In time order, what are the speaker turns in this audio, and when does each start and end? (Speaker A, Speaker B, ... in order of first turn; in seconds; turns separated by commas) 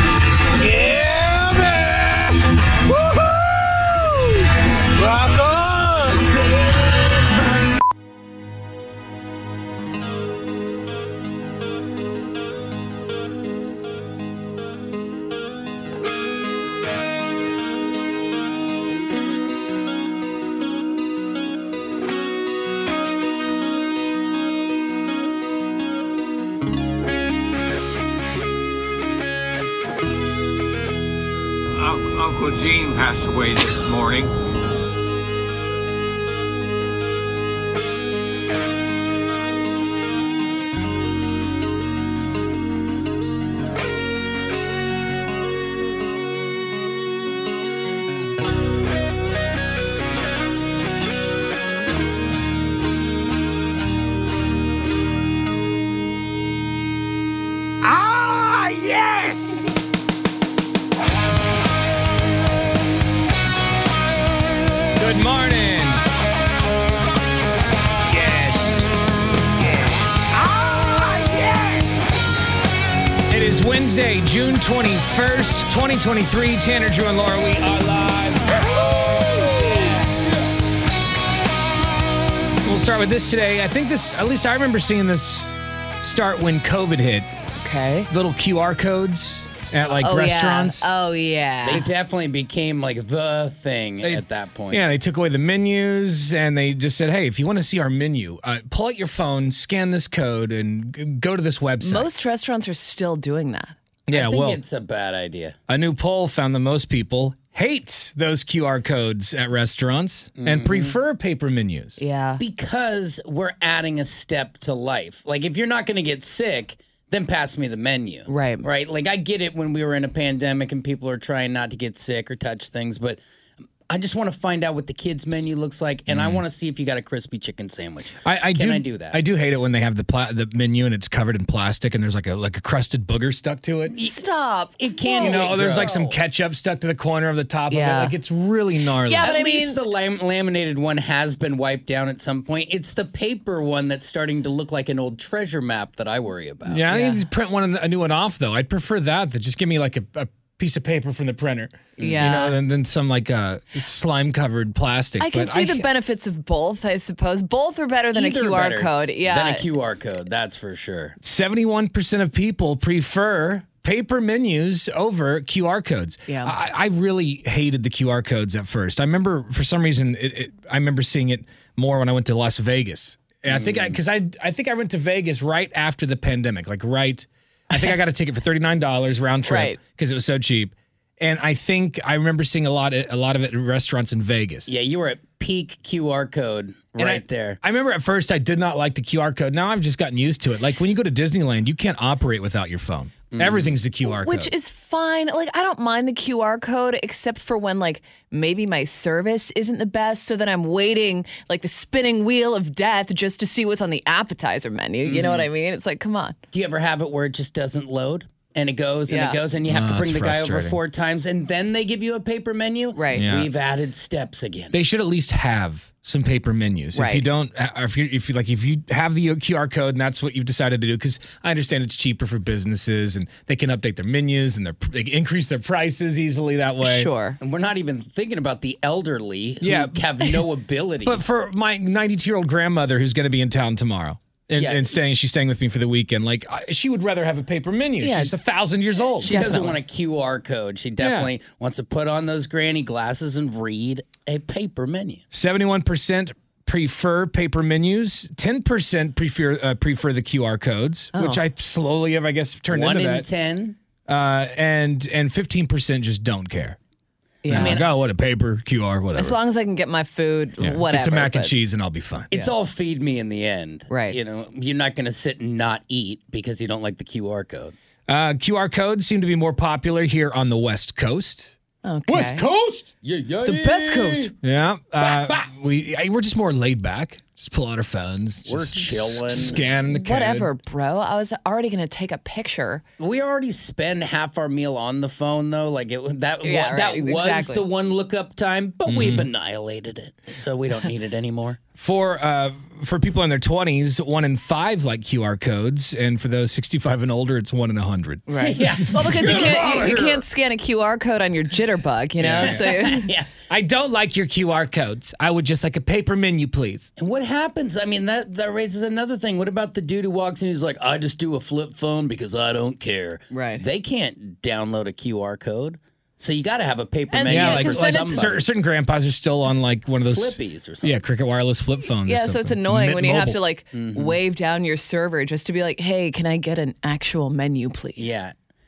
Speaker A: 0.5-7.7, Speaker B: 31.8-34.3, Speaker C: 65.0-66.0, Speaker C: 68.1-68.9, Speaker C: 69.6-70.3, Speaker C: 73.3-78.7, Speaker C: 79.6-79.9, Speaker C: 82.6-85.5, Speaker C: 86.0-87.3, Speaker D: 87.6-88.1, Speaker C: 88.1-90.9, Speaker D: 90.0-91.8, Speaker E: 91.6-94.8, Speaker C: 94.0-102.1, Speaker D: 101.8-103.8, Speaker C: 104.1-104.6, Speaker E: 104.1-105.6, Speaker C: 105.7-112.0, Speaker E: 110.4-111.0, Speaker D: 112.0-112.4, Speaker E: 112.4-123.2, Speaker D: 118.3-118.7, Speaker E: 123.9-129.2, Speaker C: 126.1-126.4, Speaker C: 128.2-133.9, Speaker E: 133.9-134.2, Speaker D: 134.0-136.0, Speaker E: 134.8-136.2, Speaker C: 135.2-139.3, Speaker D: 137.7-138.2, Speaker D: 139.0-139.8, Speaker E: 139.2-146.9, Speaker C: 146.7-155.9, Speaker D: 146.9-147.2, Speaker E: 152.0-152.5, Speaker D: 152.0-152.6, Speaker D: 155.2-159.6, Speaker E: 158.1-161.2, Speaker C: 161.2-184.7, Speaker D: 166.3-166.6, Speaker E: 173.5-174.0, Speaker D: 179.4-179.8, Speaker E: 184.7-187.6, Speaker C: 187.0-194.5, Speaker E: 193.3-193.8, Speaker D: 194.1-206.4, Speaker E: 205.0-205.5, Speaker E: 206.5-214.7, Speaker D: 209.1-209.4, Speaker C: 209.7-210.8, Speaker D: 212.9-213.2, Speaker C: 213.2-213.5, Speaker C: 214.7-227.1, Speaker D: 216.9-217.2, Speaker D: 226.8-227.4, Speaker E: 227.4-231.2, Speaker C: 229.6-230.0, Speaker C: 231.0-239.6, Speaker E: 234.6-234.8, Speaker D: 238.0-238.3, Speaker E: 239.2-245.2, Speaker D: 239.2-239.8, Speaker C: 241.0-241.3, Speaker C: 245.3-253.3, Speaker D: 251.1-251.4, Speaker E: 252.7-253.8, Speaker C: 254.1-256.8, Speaker D: 257.4-257.8, Speaker E: 257.5-257.9, Speaker C: 257.5-259.4, Speaker D: 259.1-261.5, Speaker C: 260.6-262.5, Speaker E: 262.3-267.8, Speaker D: 263.9-264.2, Speaker C: 268.1-271.5, Speaker D: 271.8-272.5, Speaker E: 273.0-274.3, Speaker D: 273.4-274.3, Speaker C: 274.4-280.5, Speaker E: 275.0-275.4, Speaker E: 278.5-279.6, Speaker D: 279.9-282.8, Speaker E: 283.0-291.6, Speaker D: 286.4-287.6, Speaker C: 288.9-289.3, Speaker C: 291.8-299.6, Speaker D: 298.3-303.1, Speaker E: 298.4-300.2, Speaker C: 302.2-302.7, Speaker E: 302.2-303.3, Speaker C: 303.5-306.9, Speaker E: 307.0-318.5, Speaker D: 313.3-313.6, Speaker D: 317.1-318.3, Speaker C: 317.3-323.4, Speaker E: 320.0-321.0, Speaker D: 322.1-328.1, Speaker E: 323.7-324.2, Speaker E: 328.0-328.3